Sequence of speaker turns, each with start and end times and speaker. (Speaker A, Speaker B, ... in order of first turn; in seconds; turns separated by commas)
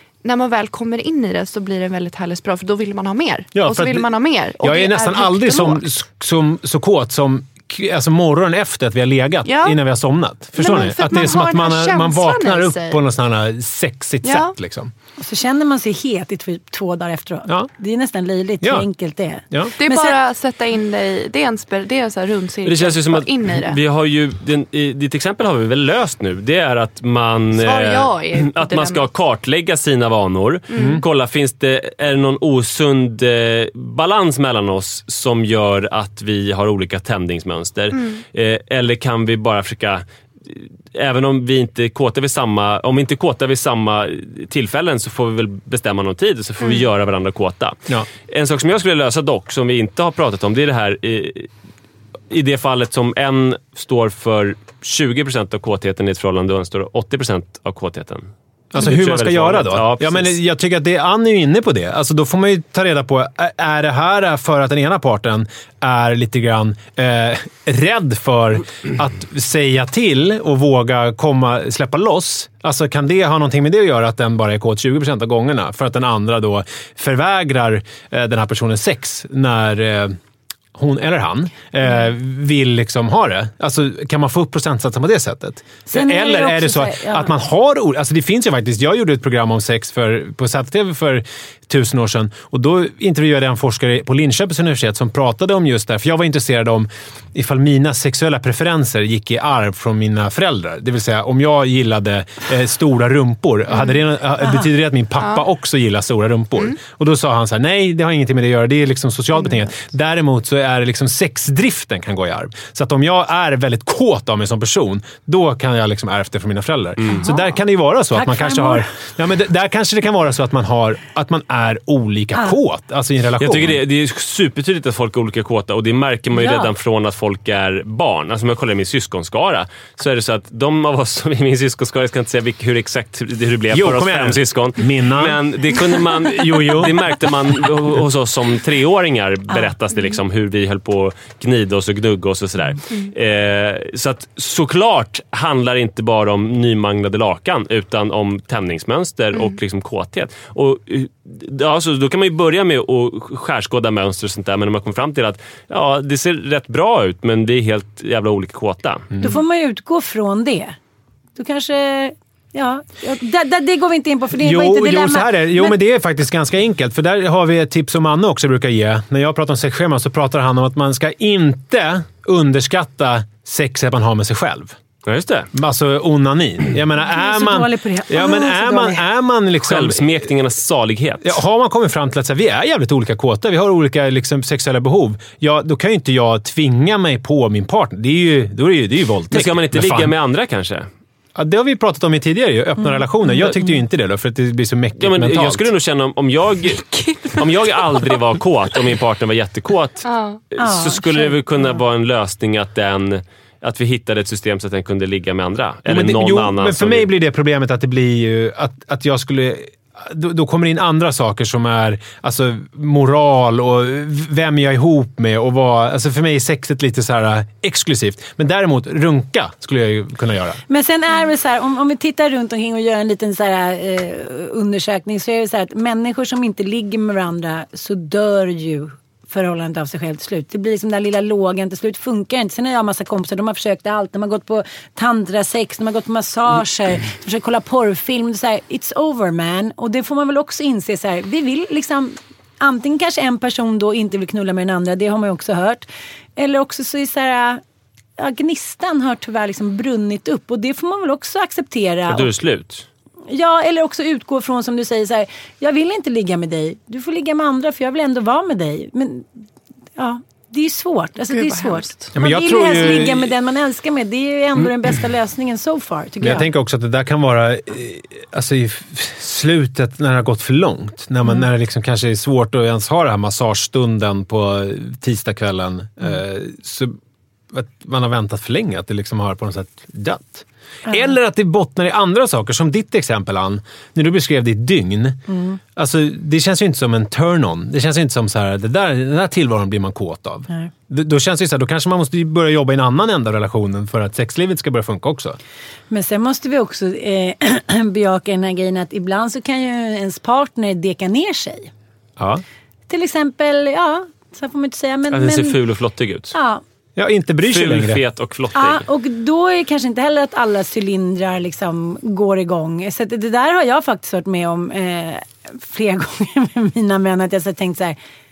Speaker A: 0.2-5.8, Speaker B: 3.5-4.0, Speaker B: 4.6-14.9, Speaker A: 9.4-9.8, Speaker A: 10.6-13.0, Speaker A: 14.2-14.5, Speaker C: 15.2-20.2, Speaker A: 19.8-23.8, Speaker D: 22.6-51.5, Speaker A: 27.6-29.1, Speaker A: 30.7-31.0, Speaker B: 30.8-31.0, Speaker A: 37.9-38.2, Speaker A: 46.6-46.9, Speaker D: 52.3-60.3, Speaker B: 58.7-80.2, Speaker B: 80.7-123.8, Speaker C: 85.8-87.3, Speaker A: 103.7-104.0, Speaker C: 104.4-104.7, Speaker C: 118.1-118.8, Speaker D: 123.4-159.1, Speaker C: 126.3-126.7, Speaker B: 133.7-135.4, Speaker B: 136.2-137.0, Speaker B: 159.1-159.4, Speaker C: 159.2-160.8, Speaker C: 161.3-165.8, Speaker B: 164.3-174.8, Speaker D: 175.0-175.5, Speaker B: 175.5-180.3, Speaker C: 177.1-179.0, Speaker D: 179.6-181.4, Speaker B: 181.2-190.1, Speaker D: 189.3-190.9, Speaker B: 191.3-195.7, Speaker C: 192.8-193.7, Speaker D: 195.0-207.1, Speaker A: 196.9-197.4, Speaker A: 200.0-200.4, Speaker C: 200.6-201.3, Speaker B: 205.9-220.6, Speaker C: 220.7-245.8, Speaker C: 246.4-247.6, Speaker C: 248.2-252.3, Speaker D: 252.1-252.9, Speaker C: 253.3-259.3, Speaker C: 260.0-266.5, Speaker A: 261.2-262.1, Speaker B: 262.1-263.3, Speaker B: 266.2-277.0, Speaker B: 277.5-285.2, Speaker C: 285.3-285.6, Speaker B: 285.7-295.4, Speaker C: 295.9-301.7, Speaker B: 302.2-302.4, Speaker C: 302.9-305.6, Speaker D: 305.1-306.3, Speaker C: 306.3-306.6, Speaker B: 306.9-308.0, Speaker D: 307.4-308.8, Speaker C: 308.5-318.0